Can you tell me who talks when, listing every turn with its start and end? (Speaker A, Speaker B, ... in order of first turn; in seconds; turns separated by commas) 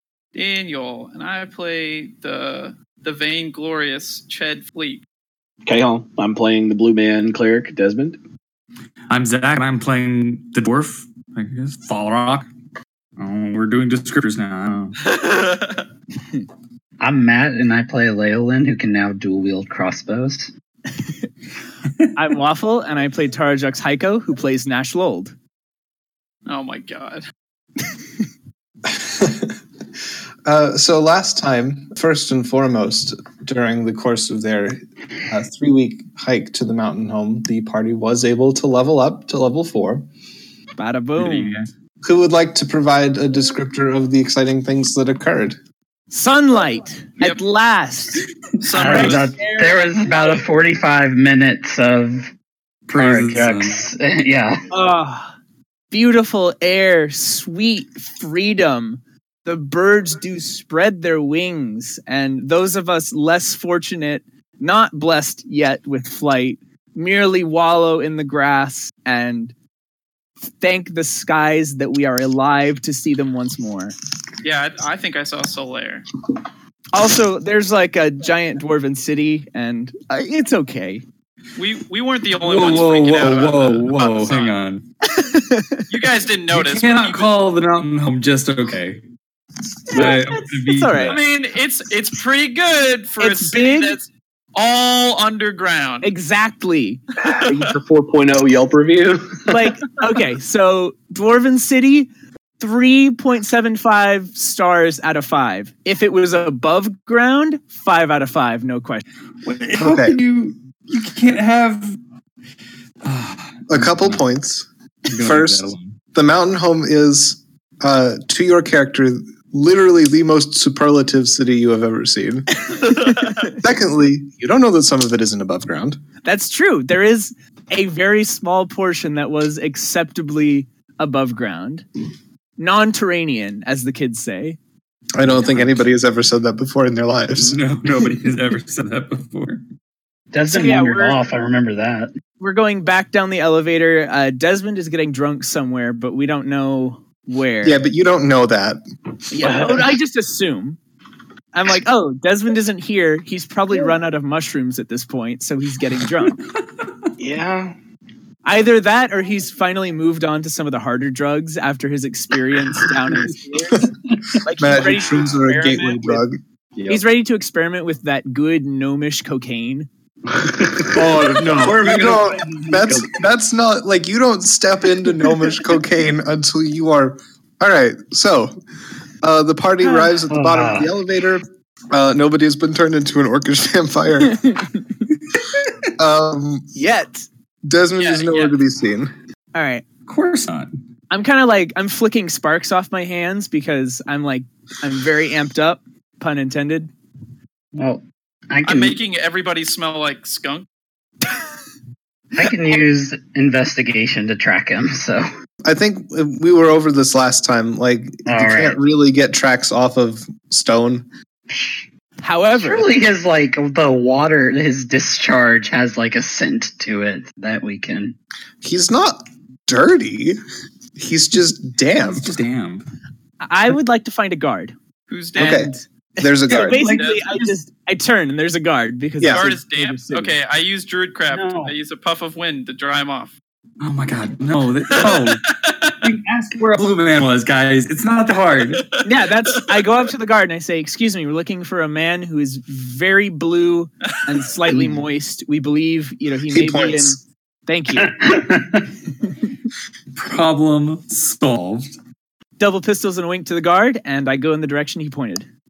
Speaker A: 0.3-5.0, Speaker B: 5.7-8.2, Speaker C: 9.1-12.5, Speaker C: 13.2-15.0, Speaker A: 15.0-15.8, Speaker D: 17.0-20.5, Speaker E: 22.1-25.3, Speaker A: 26.5-27.2, Speaker F: 28.9-29.6, Speaker F: 30.4-40.1, Speaker E: 40.8-41.6, Speaker C: 41.2-41.7, Speaker F: 42.0-45.6, Speaker E: 46.1-48.2, Speaker A: 48.6-49.3, Speaker D: 48.7-52.3, Speaker E: 48.9-50.5, Speaker C: 52.9-53.8, Speaker D: 52.9-54.6, Speaker E: 54.7-55.3, Speaker E: 55.9-69.5, Speaker E: 70.5-74.0, Speaker A: 74.4-76.1, Speaker E: 76.9-81.0, Speaker A: 81.6-84.5, Speaker C: 82.4-84.8, Speaker E: 85.0-85.9, Speaker A: 85.9-87.3, Speaker C: 86.5-89.0, Speaker C: 89.9-91.2, Speaker E: 89.9-91.2, Speaker A: 91.1-96.1, Speaker E: 93.2-94.0, Speaker E: 96.0-97.0, Speaker B: 97.3-99.7, Speaker A: 97.3-97.7, Speaker E: 99.5-109.0, Speaker C: 109.4-112.0, Speaker F: 109.7-110.2, Speaker C: 113.0-114.2, Speaker F: 113.7-122.8, Speaker C: 115.1-115.9, Speaker E: 122.7-123.5, Speaker F: 123.4-126.0, Speaker E: 126.2-131.9, Speaker E: 132.6-134.6, Speaker F: 135.2-137.6, Speaker C: 135.4-135.8, Speaker C: 137.4-139.6, Speaker D: 140.3-142.1, Speaker E: 140.5-141.2, Speaker E: 142.4-147.8, Speaker F: 147.6-148.8, Speaker E: 149.3-150.8, Speaker B: 149.4-149.8, Speaker E: 151.5-156.4, Speaker B: 157.2-157.8, Speaker E: 158.4-163.9, Speaker E: 164.4-166.2, Speaker F: 164.6-166.4, Speaker B: 166.8-167.0, Speaker E: 166.9-169.9, Speaker B: 170.3-173.1, Speaker F: 170.9-178.6, Speaker F: 179.2-184.4, Speaker D: 180.3-180.9, Speaker F: 186.0-186.7, Speaker E: 186.8-187.3, Speaker F: 187.6-189.1, Speaker A: 188.0-188.6, Speaker E: 189.5-189.8, Speaker C: 190.1-190.7, Speaker E: 191.1-196.9, Speaker D: 197.8-199.0, Speaker A: 198.6-200.7, Speaker D: 202.3-205.2, Speaker F: 205.7-211.1, Speaker D: 208.3-208.8, Speaker E: 212.2-212.9, Speaker D: 212.6-218.2, Speaker F: 218.6-220.4, Speaker F: 221.0-222.4, Speaker C: 222.1-222.8, Speaker E: 223.4-224.8, Speaker A: 225.1-225.7, Speaker F: 225.4-226.8, Speaker E: 225.4-230.3, Speaker C: 226.7-227.6, Speaker A: 226.7-227.2, Speaker F: 229.2-229.5, Speaker A: 229.3-233.3, Speaker D: 231.3-231.7, Speaker C: 233.8-235.4, Speaker A: 234.9-236.0, Speaker C: 236.0-238.9, Speaker E: 239.0-248.3, Speaker F: 246.5-247.2, Speaker D: 248.0-248.8, Speaker C: 250.2-252.0, Speaker E: 252.6-255.5